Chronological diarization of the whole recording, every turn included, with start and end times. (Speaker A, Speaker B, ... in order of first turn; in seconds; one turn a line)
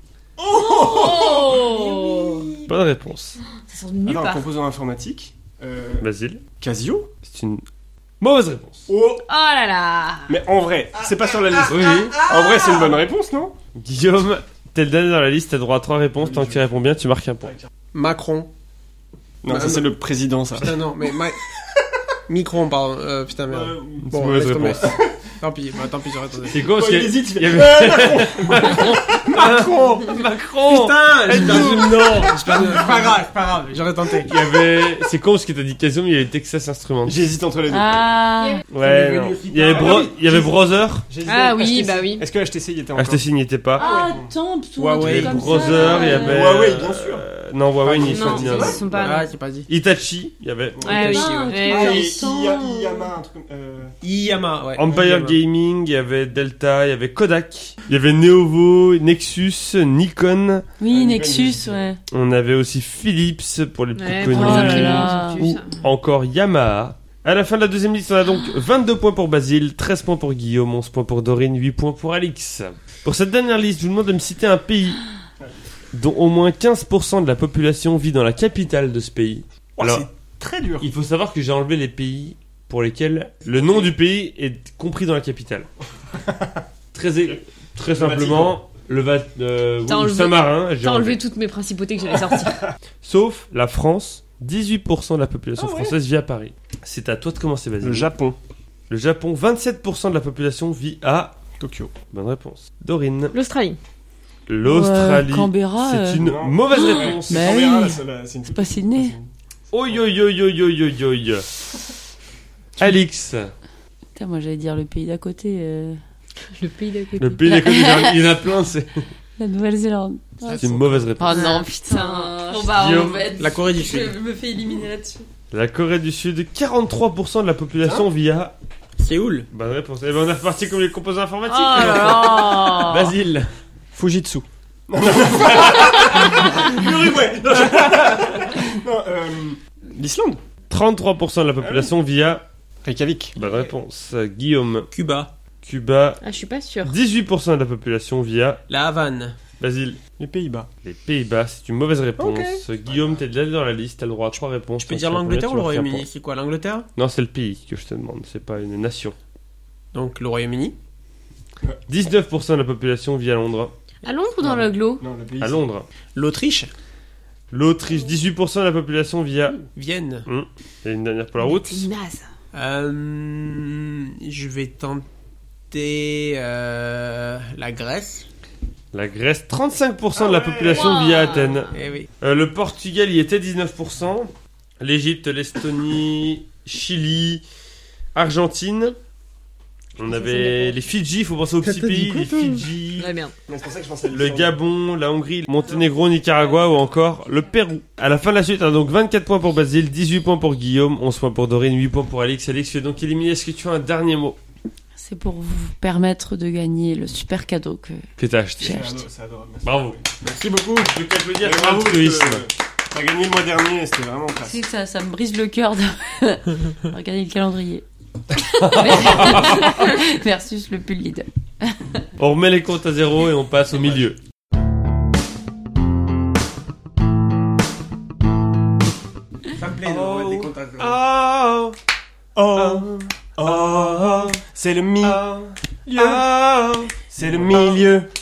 Speaker A: 0.4-1.7
Speaker B: 0.5-2.5
Speaker C: 1.5-2.7
Speaker D: 2.7-3.4
Speaker B: 3.5-4.5
Speaker A: 4.0-6.1
Speaker D: 6.0-6.4
Speaker A: 6.6-7.1
Speaker D: 7.2-7.6
Speaker D: 8.2-8.9
Speaker A: 8.9-9.2
Speaker B: 9.2-10.3
Speaker A: 10.3-13.6
Speaker D: 11.7-12.3
Speaker D: 13.7-17.6
Speaker A: 16.2-16.7
Speaker E: 17.9-18.5
Speaker A: 19.4-20.8
Speaker E: 19.5-19.9
Speaker E: 20.6-21.4
Speaker E: 22.3-24.9
Speaker A: 23.5-25.3
Speaker D: 24.1-24.9
Speaker E: 25.4-26.6
Speaker D: 26.5-33.0
Speaker A: 26.5-30.2
Speaker E: 29.3-29.7
Speaker E: 30.6-34.3
Speaker A: 31.3-33.1
Speaker D: 34.2-37.2
Speaker A: 37.0-38.0
Speaker C: 37.7-38.6
Speaker D: 38.7-41.0
Speaker E: 38.8-40.1
Speaker A: 39.6-43.2
Speaker B: 41.2-42.2
Speaker D: 43.0-43.9
Speaker A: 43.8-44.3
Speaker C: 43.8-46.7
Speaker E: 44.8-45.8
Speaker D: 45.0-51.2
Speaker A: 45.5-47.3
Speaker B: 45.9-46.2
Speaker A: 47.8-48.9
Speaker E: 47.9-49.7
Speaker B: 48.1-49.3
Speaker A: 50.8-51.1
Speaker B: 50.8-52.2
Speaker E: 50.9-52.0
Speaker C: 50.9-53.1
Speaker A: 51.6-53.9
Speaker E: 54.0-55.4
Speaker D: 54.8-60.7
Speaker C: 60.8-62.0
Speaker A: 60.9-61.9
Speaker D: 62.1-75.0
Speaker B: 64.0-65.8
Speaker C: 64.3-65.5
Speaker D: 75.9-80.1
Speaker A: 79.8-80.9
Speaker D: 80.8-85.7
Speaker A: 86.2-86.5
Speaker D: 86.9-91.2
Speaker A: 87.3-88.6
Speaker B: 89.9-92.7
Speaker D: 93.0-98.1
Speaker A: 95.6-95.9
Speaker A: 97.8-98.4
Speaker D: 98.9-101.4
Speaker A: 101.6-101.9
Speaker D: 102.1-103.3
Speaker B: 103.3-103.8
Speaker D: 104.5-107.5
Speaker C: 104.6-106.2
Speaker A: 106.2-109.3
Speaker C: 106.7-109.2
Speaker D: 109.7-111.5
Speaker D: 112.8-113.5
Speaker C: 114.1-116.0
Speaker B: 116.5-117.8
Speaker D: 117.2-119.0
Speaker C: 117.5-118.3
Speaker C: 119.4-125.2
Speaker E: 120.5-121.1
Speaker D: 120.6-121.6
Speaker B: 121.3-123.2
Speaker D: 122.7-123.3
Speaker E: 123.3-124.1
Speaker D: 125.5-128.6
Speaker A: 127.8-128.1
Speaker E: 129.0-129.5
Speaker D: 129.5-133.5
Speaker B: 131.5-133.0
Speaker C: 131.7-133.1
Speaker A: 133.9-140.4
Speaker D: 135.2-136.4
Speaker D: 140.7-142.4
Speaker A: 141.6-141.9
Speaker A: 142.8-143.4
Speaker D: 143.3-144.9
Speaker E: 144.9-145.3
Speaker D: 145.6-146.2
Speaker B: 146.2-146.9
Speaker D: 146.8-148.6
Speaker E: 148.7-149.3
Speaker D: 149.6-150.0
Speaker A: 150.2-150.7
Speaker D: 150.8-156.1
Speaker A: 152.2-153.2
Speaker E: 154.8-156.9
Speaker D: 156.9-159.2
Speaker E: 159.9-160.8
Speaker D: 161.9-163.7
Speaker B: 164.0-165.0
Speaker A: 164.4-165.6
Speaker D: 165.4-165.9
Speaker E: 166.1-166.7
Speaker D: 167.5-169.7
Speaker E: 169.7-170.3
Speaker D: 170.2-171.9
Speaker B: 171.4-172.2
Speaker E: 172.5-175.1
Speaker E: 175.7-178.2
Speaker D: 178.9-187.4
Speaker A: 180.1-181.4
Speaker B: 180.7-181.8
Speaker E: 181.7-182.1
Speaker D: 188.1-189.0
Speaker D: 190.0-193.1
Speaker C: 190.0-190.8
Speaker E: 191.6-192.7
Speaker B: 193.0-193.3
Speaker A: 193.5-194.6
Speaker D: 194.1-204.4
Speaker C: 204.9-208.1
Speaker D: 208.2-209.0
Speaker A: 208.6-210.1
Speaker D: 209.6-210.0
Speaker E: 210.2-210.9
Speaker D: 210.8-212.4
Speaker A: 211.4-214.6
Speaker C: 214.4-217.8
Speaker D: 218.5-219.9
Speaker C: 218.7-221.9
Speaker D: 222.2-224.2
Speaker E: 229.5-231.0
Speaker D: 229.8-231.8
Speaker A: 232.3-235.2
Speaker D: 232.5-234.4
Speaker D: 235.0-237.9
Speaker A: 235.9-236.2
Speaker A: 237.1-238.1